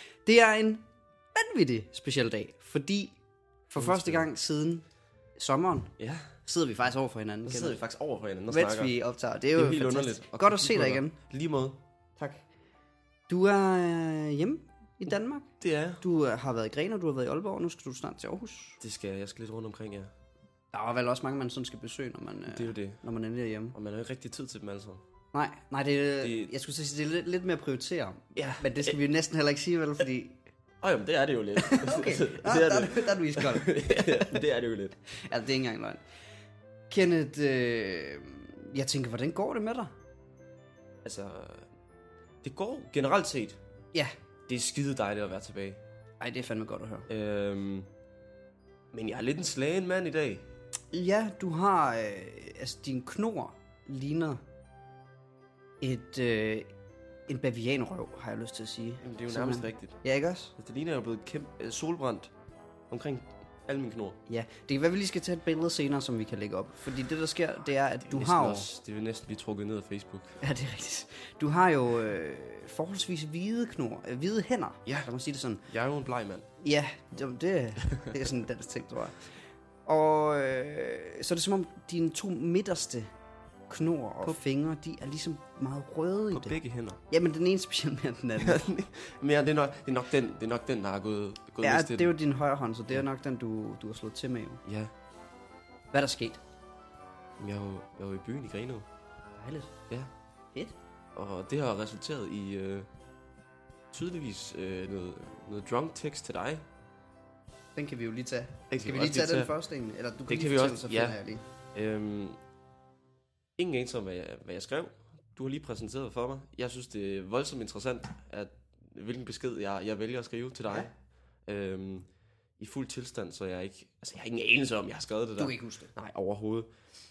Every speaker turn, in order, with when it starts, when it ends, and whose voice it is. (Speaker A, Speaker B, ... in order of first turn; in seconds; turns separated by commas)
Speaker A: 0.2-0.8, Speaker A: 1.4-3.2, Speaker A: 3.7-4.8, Speaker B: 3.8-4.3, Speaker A: 5.4-5.9, Speaker B: 6.0-6.3, Speaker A: 6.5-7.8, Speaker B: 7.5-8.9, Speaker A: 8.5-11.2, Speaker B: 9.5-11.8, Speaker A: 12.2-12.4, Speaker A: 13.3-15.5, Speaker B: 15.6-16.0, Speaker A: 16.0-18.8, Speaker B: 18.8-20.1, Speaker A: 20.7-23.8, Speaker B: 22.5-23.0, Speaker B: 23.7-25.0, Speaker A: 25.3-30.4, Speaker B: 26.2-26.5, Speaker B: 28.4-29.0, Speaker B: 30.8-35.0, Speaker A: 31.6-34.4, Speaker A: 35.1-36.0, Speaker A: 36.9-39.9, Speaker B: 41.0-41.7, Speaker B: 42.4-43.6, Speaker B: 44.5-45.8, Speaker A: 46.2-47.1, Speaker B: 47.1-47.9, Speaker B: 48.9-50.5, Speaker A: 50.9-54.4, Speaker A: 55.8-56.7, Speaker A: 57.3-60.5, Speaker B: 59.0-60.0, Speaker B: 60.6-62.3, Speaker B: 62.9-64.2, Speaker A: 64.3-68.7, Speaker B: 68.0-70.4, Speaker A: 70.4-75.7, Speaker B: 75.7-76.5, Speaker A: 76.6-83.1, Speaker A: 83.7-86.5, Speaker B: 86.3-87.0, Speaker A: 87.1-88.6, Speaker B: 88.4-92.1, Speaker A: 91.6-94.6, Speaker B: 94.7-94.9, Speaker A: 95.9-96.4, Speaker B: 97.4-98.9, Speaker A: 99.4-99.8, Speaker B: 101.2-102.9, Speaker B: 103.9-106.7, Speaker A: 107.8-111.5, Speaker B: 108.7-109.5, Speaker B: 110.3-111.2, Speaker B: 111.7-112.4, Speaker B: 113.6-120.9, Speaker B: 121.5-122.1, Speaker B: 122.6-126.7, Speaker A: 125.4-125.9